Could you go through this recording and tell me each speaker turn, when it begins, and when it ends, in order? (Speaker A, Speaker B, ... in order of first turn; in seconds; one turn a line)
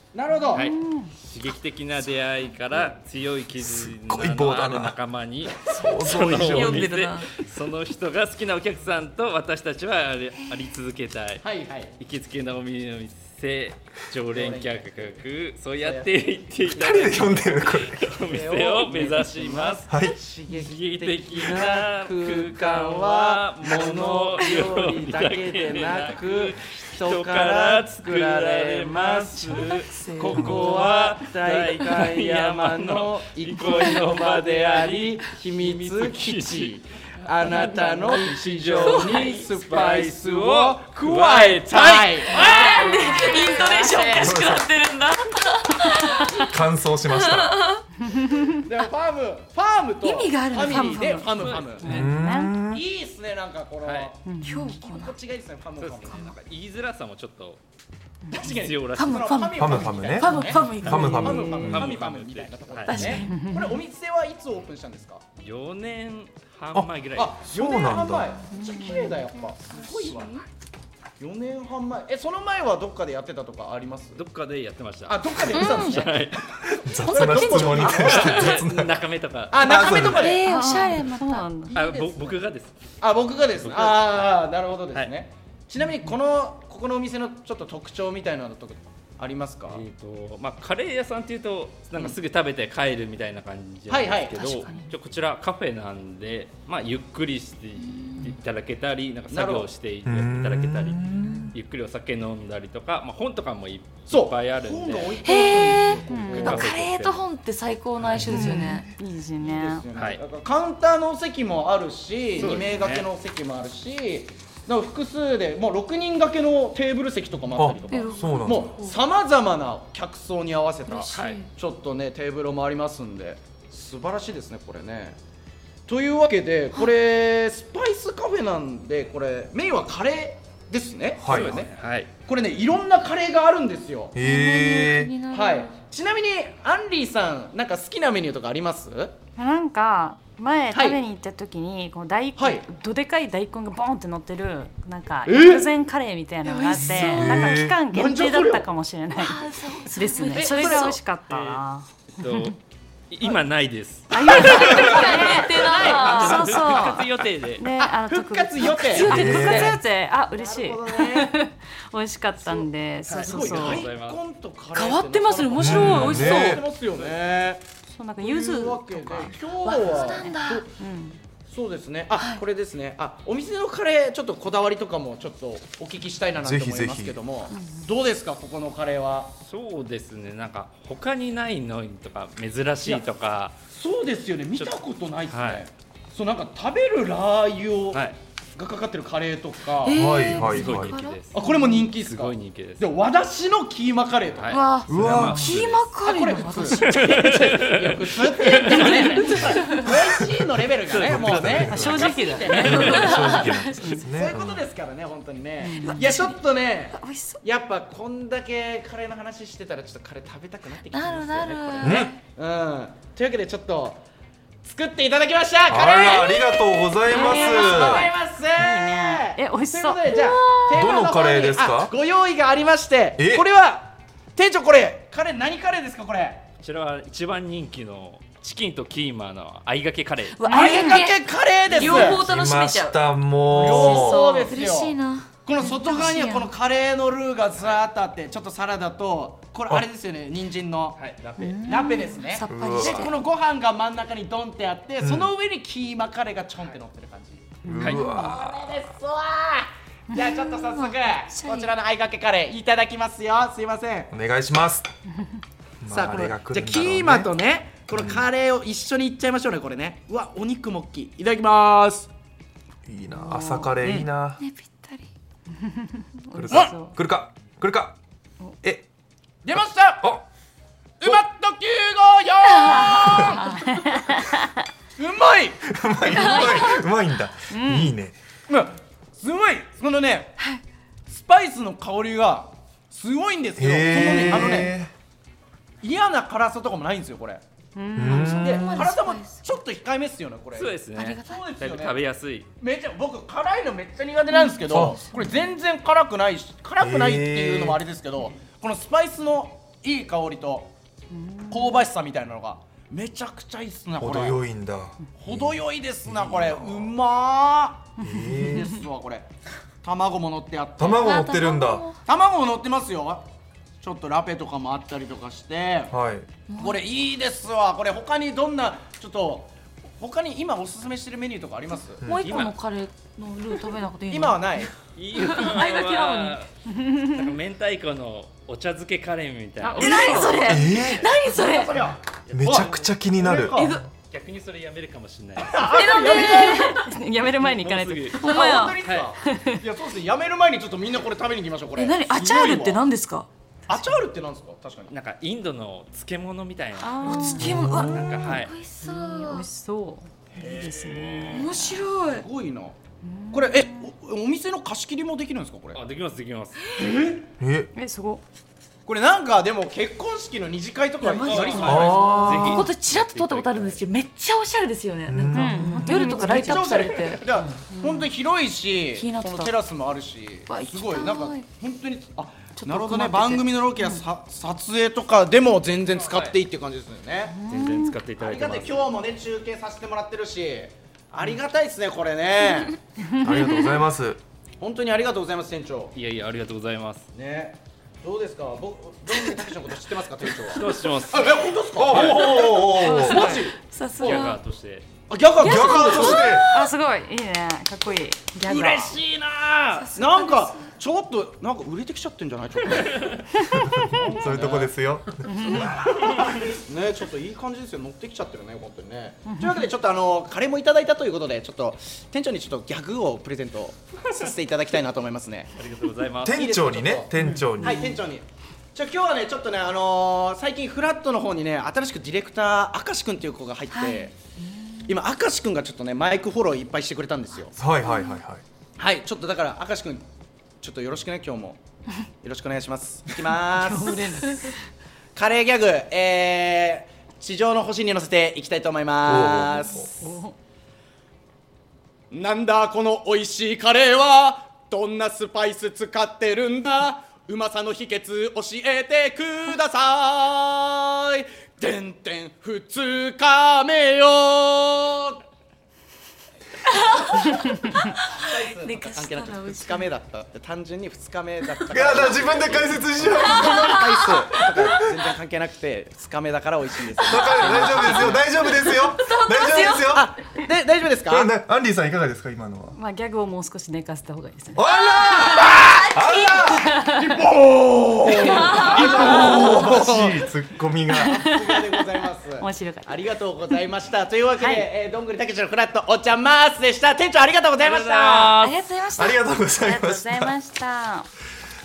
Speaker A: 0.1-0.7
Speaker B: 0.5-1.1
Speaker C: 0.5-11.4
Speaker D: 3.6-5.0
Speaker D: 5.7-6.9
Speaker E: 5.7-7.3
Speaker A: 11.4-11.9
Speaker C: 12.0-19.9
Speaker A: 14.3-15.2
Speaker A: 15.8-43.9
Speaker D: 16.8-18.1
Speaker D: 19.9-20.1
Speaker C: 20.5-43.7
Speaker E: 29.5-30.8
Speaker E: 38.8-39.3
Speaker E: 42.2-46.5
Speaker B: 43.7-44.2
Speaker D: 44.1-44.6
Speaker D: 46.4-47.6
Speaker E: 47.1-47.8
Speaker B: 48.1-48.5
Speaker A: 48.5-52.0
Speaker E: 50.0-51.3
Speaker C: 51.3-51.8
Speaker B: 51.8-52.5
Speaker D: 51.8-52.8
Speaker A: 52.7-56.4
Speaker C: 53.8-54.1
Speaker B: 54.2-54.7
Speaker E: 54.4-55.1
Speaker C: 55.8-57.6
Speaker E: 56.0-56.3
Speaker A: 58.3-65.2
Speaker C: 58.5-59.4
Speaker E: 59.0-61.1
Speaker D: 59.6-62.0
Speaker B: 60.9-61.8
Speaker C: 61.6-63.2
Speaker E: 62.9-63.3
Speaker B: 63.1-63.8
Speaker C: 65.4-67.4
Speaker A: 67.1-70.4
Speaker D: 67.4-68.3
Speaker B: 68.7-69.1
Speaker E: 69.8-70.3
Speaker A: 71.2-74.2
Speaker C: 74.1-76.8
Speaker A: 75.1-78.7
Speaker E: 75.5-76.0
Speaker D: 76.8-79.0
Speaker E: 77.0-78.3
Speaker C: 77.8-80.2
Speaker A: 79.5-80.4
Speaker D: 79.5-80.4
Speaker E: 80.0-81.5
Speaker B: 80.5-81.8
Speaker A: 81.7-82.4
Speaker C: 81.7-82.7
Speaker A: 83.0-89.8
Speaker C: 83.5-84.4
Speaker C: 89.7-101.0
Speaker A: 93.9-94.7
Speaker A: 99.3-99.7
Speaker D: 100.0-101.5
Speaker C: 101.5-105.2
Speaker A: 104.1-106.8
Speaker E: 105.2-108.9
Speaker B: 106.1-106.5
Speaker C: 106.1-107.3
Speaker D: 108.1-108.9
Speaker B: 108.3-109.8
Speaker A: 109.4-125.2
Speaker C: 109.9-110.2
Speaker C: 112.3-113.1
Speaker E: 112.4-112.7
Speaker D: 117.5-118.7
Speaker E: 117.9-119.0
Speaker E: 120.9-121.5
Speaker C: 121.1-121.5
Speaker A: 125.9-131.7
Speaker D: 131.2-131.6
Speaker C: 131.2-132.1
Speaker A: 132.2-134.2
Speaker D: 134.1-135.1
Speaker E: 134.2-135.8
Speaker A: 135.3-139.1
Speaker B: 139.4-152.4
Speaker A: 140.7-141.0
Speaker A: 142.4-142.6
Speaker A: 145.2-145.7
Speaker E: 146.4-147.4
Speaker D: 146.8-147.8
Speaker A: 147.9-148.7
Speaker E: 149.1-151.0
Speaker A: 150.3-150.9
Speaker C: 151.3-151.6
Speaker C: 152.1-152.6
Speaker C: 153.1-157.7
Speaker B: 154.1-163.8
Speaker A: 154.2-156.9
Speaker E: 154.4-156.4
Speaker A: 157.8-159.8
Speaker E: 158.6-159.7
Speaker D: 158.9-159.8
Speaker A: 160.3-161.3
Speaker A: 162.4-167.6
Speaker C: 163.1-164.2
Speaker E: 164.7-166.6
Speaker D: 165.6-166.6
Speaker B: 167.9-169.4
Speaker A: 168.2-170.7
Speaker E: 169.2-170.7
Speaker B: 170.2-171.2
Speaker A: 171.5-179.3
Speaker E: 172.1-172.4
Speaker D: 176.4-177.2
Speaker B: 177.5-177.9
Speaker C: 179.4-183.6
Speaker A: 183.7-190.0
Speaker C: 184.5-185.7
Speaker C: 187.9-188.2
Speaker E: 189.8-191.7
Speaker D: 189.9-191.0
Speaker C: 190.2-192.9
Speaker A: 191.3-194.6
Speaker C: 194.3-196.0
Speaker E: 194.5-197.6
Speaker D: 194.9-195.6
Speaker A: 196.0-203.4
Speaker C: 196.7-199.4
Speaker E: 198.6-200.0
Speaker C: 200.8-201.8
Speaker D: 201.0-204.6
Speaker B: 201.6-203.1
Speaker C: 202.4-203.2
Speaker E: 202.9-203.7
Speaker A: 204.1-214.0
Speaker B: 205.6-206.0
Speaker E: 205.8-206.4
Speaker E: 206.9-207.4
Speaker E: 210.9-212.2
Speaker D: 211.8-212.1
Speaker A: 214.6-216.4
Speaker D: 215.7-218.1
Speaker E: 215.8-218.0
Speaker B: 217.2-220.1
Speaker A: 217.2-226.4
Speaker E: 220.1-220.9
Speaker D: 220.7-221.9
Speaker D: 223.2-223.4
Speaker C: 226.6-230.8
Speaker E: 230.3-233.0
Speaker B: 230.5-231.0
Speaker A: 230.5-232.2
Speaker D: 231.8-234.2
Speaker A: 233.5-254.1
Speaker E: 233.5-236.5
Speaker C: 240.9-241.2
Speaker B: 241.4-242.2
Speaker E: 242.2-243.1
Speaker D: 242.5-243.1
Speaker D: 245.0-245.3
Speaker B: 247.6-248.3
Speaker D: 247.6-248.5
Speaker C: 247.8-248.0
Speaker E: 250.1-251.7
Speaker D: 254.1-254.9
Speaker D: 255.8-257.3
Speaker A: 255.9-262.1
Speaker D: 257.9-258.2
Speaker D: 262.9-264.4
Speaker B: 263.1-264.1
Speaker E: 264.4-265.1
Speaker B: 265.6-267.0
Speaker D: 266.3-267.9
Speaker A: 269.4-270.1
Speaker A: 271.0-273.7
Speaker E: 272.5-273.4
Speaker B: 272.8-274.4
Speaker A: 274.9-275.6
Speaker D: 275.6-278.1
Speaker A: 276.1-276.6
Speaker E: 276.4-276.8
Speaker B: 277.5-277.9
Speaker A: 278.5-280.4
Speaker A: 281.1-284.7
Speaker D: 283.6-284.9
Speaker A: 285.8-287.4
Speaker B: 287.7-288.6
Speaker D: 288.0-288.8
Speaker E: 288.0-289.5
Speaker A: 288.4-292.0
Speaker C: 290.5-292.5
Speaker E: 290.9-291.4
Speaker A: 292.6-300.7
Speaker E: 294.3-294.6
Speaker D: 294.7-295.0
Speaker D: 296.8-297.8
Speaker B: 301.1-301.9
Speaker A: 301.5-304.4
Speaker D: 304.0-306.9
Speaker A: 305.2-307.9
Speaker B: 308.0-308.7
Speaker D: 308.0-308.7
Speaker A: 308.5-309.3
Speaker A: 309.8-311.2
Speaker D: 310.8-311.8
Speaker E: 310.9-312.0
Speaker A: 312.1-313.2
Speaker A: 313.8-315.9
Speaker D: 315.9-316.3
Speaker E: 316.5-316.8
Speaker A: 316.6-322.5
Speaker D: 322.0-322.5
Speaker E: 322.1-326.4
Speaker A: 324.1-324.7
Speaker C: 324.9-331.1
Speaker B: 329.6-330.4
Speaker E: 329.8-331.8
Speaker D: 330.4-331.1
Speaker A: 331.1-333.8
Speaker C: 332.3-332.9
Speaker D: 332.3-333.6
Speaker E: 333.5-333.9
Speaker C: 334.1-335.6
Speaker A: 335.4-336.7
Speaker E: 335.6-336.9
Speaker B: 336.0-338.2
Speaker C: 337.3-339.1
Speaker E: 338.1-338.9
Speaker A: 338.2-342.8
Speaker B: 339.2-339.6
Speaker E: 341.7-343.3
Speaker A: 343.7-344.9
Speaker C: 344.9-348.5
Speaker B: 346.8-347.6
Speaker E: 347.0-349.5
Speaker D: 347.4-348.1
Speaker B: 348.8-351.8
Speaker A: 350.4-350.9
Speaker C: 350.4-351.6
Speaker E: 351.3-352.3
Speaker A: 352.1-352.8
Speaker B: 353.0-353.9
Speaker A: 353.3-355.8
Speaker C: 355.7-357.1
Speaker E: 356.7-356.9
Speaker A: 356.8-357.2
Speaker D: 357.4-357.7
Speaker B: 357.7-358.2
Speaker A: 358.8-362.4
Speaker E: 361.0-367.3
Speaker C: 361.2-363.9
Speaker D: 361.6-362.7
Speaker D: 365.1-366.0
Speaker B: 365.3-366.9
Speaker A: 366.0-377.4
Speaker B: 367.7-368.1
Speaker E: 368.9-369.5
Speaker E: 370.5-371.5
Speaker E: 372.5-373.6
Speaker B: 373.8-374.0
Speaker C: 375.9-376.4
Speaker B: 377.3-378.0
Speaker C: 377.5-378.9
Speaker A: 378.2-382.8
Speaker B: 383.1-383.7
Speaker D: 383.2-384.2
Speaker A: 384.6-385.9
Speaker C: 385.9-387.1
Speaker A: 387.1-394.4
Speaker C: 390.5-392.2
Speaker D: 391.8-393.3
Speaker E: 392.1-392.5
Speaker B: 392.7-393.4
Speaker E: 393.0-394.4
Speaker C: 394.0-394.9
Speaker A: 395.1-396.4
Speaker E: 395.4-396.7
Speaker D: 395.4-396.4
Speaker B: 396.4-399.0
Speaker A: 398.4-404.7
Speaker E: 399.7-400.7
Speaker D: 403.5-405.8
Speaker B: 405.3-405.7
Speaker A: 405.4-415.5
Speaker B: 409.2-409.7
Speaker C: 415.5-416.4
Speaker D: 416.2-417.8
Speaker A: 416.3-424.1
Speaker B: 417.2-417.5
Speaker E: 423.7-424.1
Speaker A: 424.9-427.6
Speaker D: 427.6-428.4
Speaker E: 427.9-428.1
Speaker A: 428.8-430.0
Speaker A: 430.6-431.6
Speaker A: 432.2-434.1
Speaker E: 433.6-434.5
Speaker A: 435.1-439.9
Speaker D: 439.0-439.9
Speaker B: 439.7-440.3
Speaker A: 442.1-455.2
Speaker E: 456.6-459.9
Speaker A: 456.9-457.4
Speaker A: 458.1-468.2
Speaker D: 461.7-464.8
Speaker E: 463.2-463.9
Speaker D: 467.0-470.1
Speaker E: 467.0-469.9
Speaker A: 469.5-471.3
Speaker D: 471.1-472.8
Speaker B: 472.7-474.6
Speaker D: 474.5-476.7
Speaker E: 474.8-476.5
Speaker A: 475.3-475.8
Speaker A: 476.4-480.3
Speaker B: 476.5-477.0
Speaker E: 478.2-479.6
Speaker D: 478.4-481.2
Speaker B: 478.9-479.6
Speaker B: 480.9-482.9
Speaker A: 481.0-488.5
Speaker B: 484.4-484.7
Speaker C: 487.6-488.5
Speaker E: 488.4-489.2
Speaker D: 488.9-490.3
Speaker B: 489.6-491.1